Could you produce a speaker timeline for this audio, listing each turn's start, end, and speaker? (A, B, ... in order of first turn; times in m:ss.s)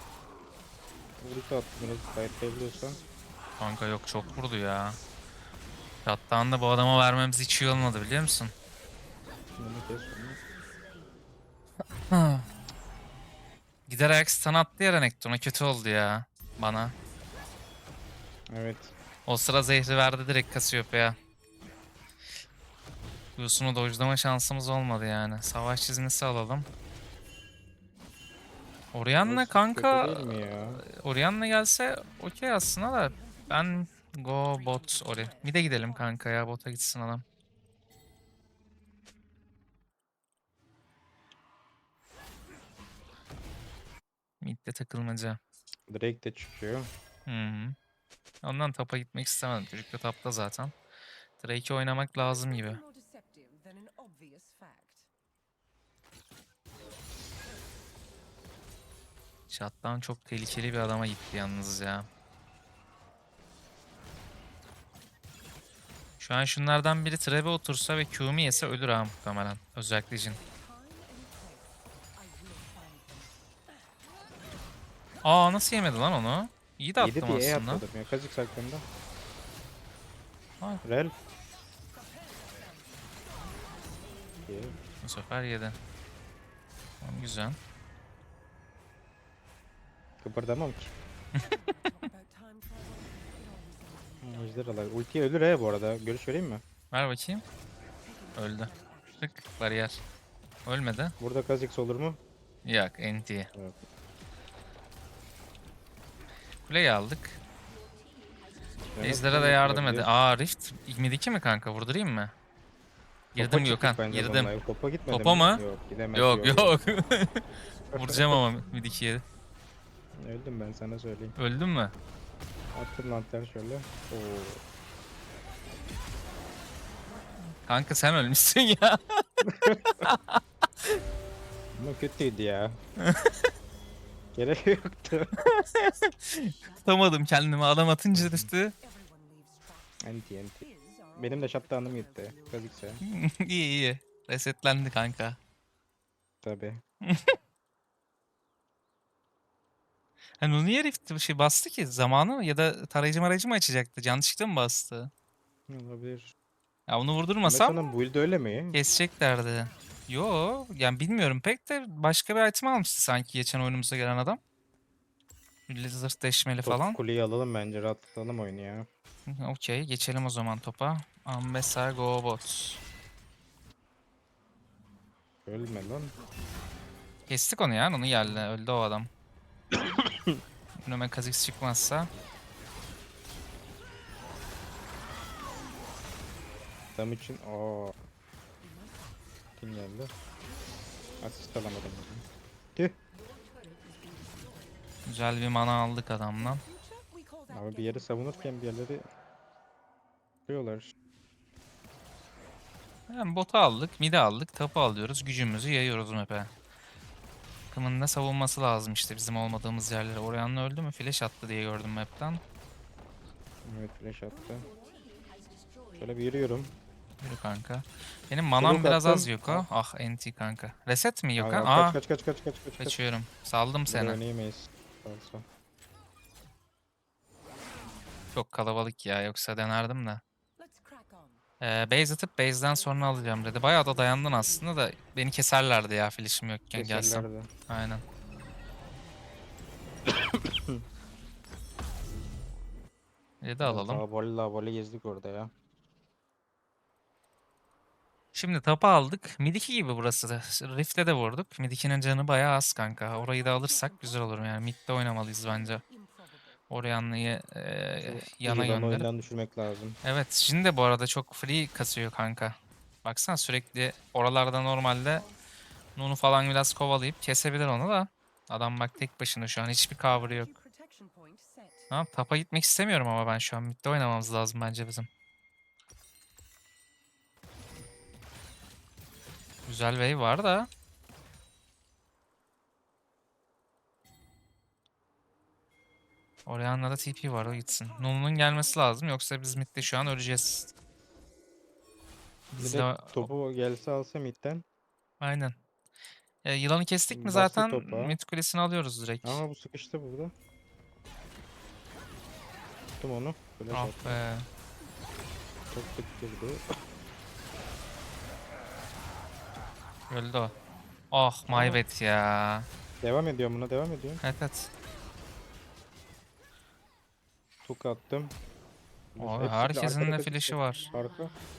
0:01.2-0:03.0 A
0:01.8-0:03.4 B
0:03.6-0:05.0 C
0:06.0-0:08.5 C
0:09.6-0:10.4 A
0:12.1-0:12.5 C
0:13.9-0:17.0 C
0:18.5-0:18.9 A
0:19.3-0:21.2 C
0:23.4-0:26.7 C
0:28.9-0:37.2 C
0:29.2-0:30.8 A
0:32.6-0:36.5 B
0:44.4-0:45.4 C
0:45.9-0:46.9 A
0:47.3-0:47.8 C
0:48.4-0:50.7 C
0:51.4-0:52.8 C
0:52.2-0:55.1 B
0:59.5-1:02.1 C
1:06.2-1:10.4 C
1:10.2-1:13.8 B
1:15.2-1:17.8 C
1:17.0-1:18.9 A
1:20.8-1:21.1 A
1:21.2-1:24.2 B
1:24.4-1:24.8 A
1:25.0-1:25.8 C
1:27.0-1:27.6 C
1:30.2-1:30.9 A
1:31.3-1:34.9 B
1:34.2-1:36.6 A
1:36.9-1:37.4 C
1:38.0-1:39.5 B
1:38.4-1:40.0 C
1:40.7-1:41.1 C
1:41.2-1:42.2 A
1:42.6-1:43.5 C
1:43.6-1:43.9 A
1:46.7-1:47.4 C
1:48.9-1:50.1 A
1:49.0-1:52.3 C
1:53.3-1:56.8 A
1:53.4-1:54.5 C
1:55.1-1:55.6 C
1:56.1-1:59.2 C
1:57.9-1:58.5 A
2:00.2-2:01.4 A
2:01.4-2:01.9 C
2:02.7-2:04.6 A
2:07.6-2:10.4 C
2:09.4-2:09.8 A
2:11.8-2:12.8 A
2:13.0-2:13.5 C
2:14.4-2:15.3 A
2:15.4-2:18.7 C
2:18.1-2:18.5 A
2:18.8-2:22.8 B
2:20.0-2:20.6 A
2:21.2-2:23.0 A
2:23.0-2:25.4 C
2:26.4-2:26.8 A
2:27.0-2:27.4 C
2:30.4-2:35.1 C
2:35.7-2:36.3 A
2:36.9-2:37.8 C
2:37.4-2:38.8 A
2:37.6-2:40.1 B
2:38.7-2:44.4 C
2:45.7-2:47.0 C
2:46.6-2:48.9 A
2:49.3-2:52.8 C
2:55.5-2:56.1 A
2:55.5-2:56.8 B
2:57.3-2:59.1 C
2:58.2-2:58.5 A
2:59.7-3:00.4 A
3:00.8-3:02.1 C
3:07.0-3:07.9 A
3:08.6-3:09.3 B
3:09.6-3:10.1 A
3:11.2-3:13.0 A
3:15.1-3:16.6 C
3:16.4-3:18.6 B
3:17.5-3:19.0 A
3:20.5-3:20.9 A
3:23.1-3:26.5 C
3:27.7-3:32.4 C
3:33.6-3:34.7 A
3:34.3-3:35.3 B
3:36.0-3:36.7 A
3:37.2-3:42.0 C
3:38.6-3:39.6 A
3:41.4-3:43.0 A
3:42.8-3:44.2 C
3:43.9-3:45.4 A
3:48.3-3:50.2 C
3:50.6-3:51.4 B
3:51.6-3:58.0 C
3:56.8-3:57.5 A
3:58.8-3:59.2 B
4:00.1-4:00.8 A
4:03.4-4:04.0 C
4:03.6-4:05.5 A
4:08.4-4:15.8 C
4:13.1-4:14.7 B
4:15.3-4:16.7 B
4:16.7-4:19.1 C
4:18.0-4:20.0 A
4:20.0-4:25.2 C
4:26.0-4:30.5 C
4:30.1-4:31.9 B
4:31.9-4:35.1 C
4:39.7-4:40.7 C
4:46.4-4:50.7 C
4:47.3-4:50.3 B
4:52.5-4:53.3 C
4:52.6-4:54.6 A
4:55.2-4:55.6 C
4:56.4-4:59.4 C
4:57.1-4:58.2 A
4:59.2-5:00.3 A
5:03.0-5:04.2 A
5:03.7-5:04.5 C
5:05.7-5:06.6 A
5:10.1-5:10.5 C
5:11.1-5:12.7 C
5:11.5-5:11.8 A
5:13.0-5:14.2 A
5:14.2-5:14.7 C
5:17.6-5:18.3 A
5:19.1-5:21.4 A
5:19.2-5:20.9 C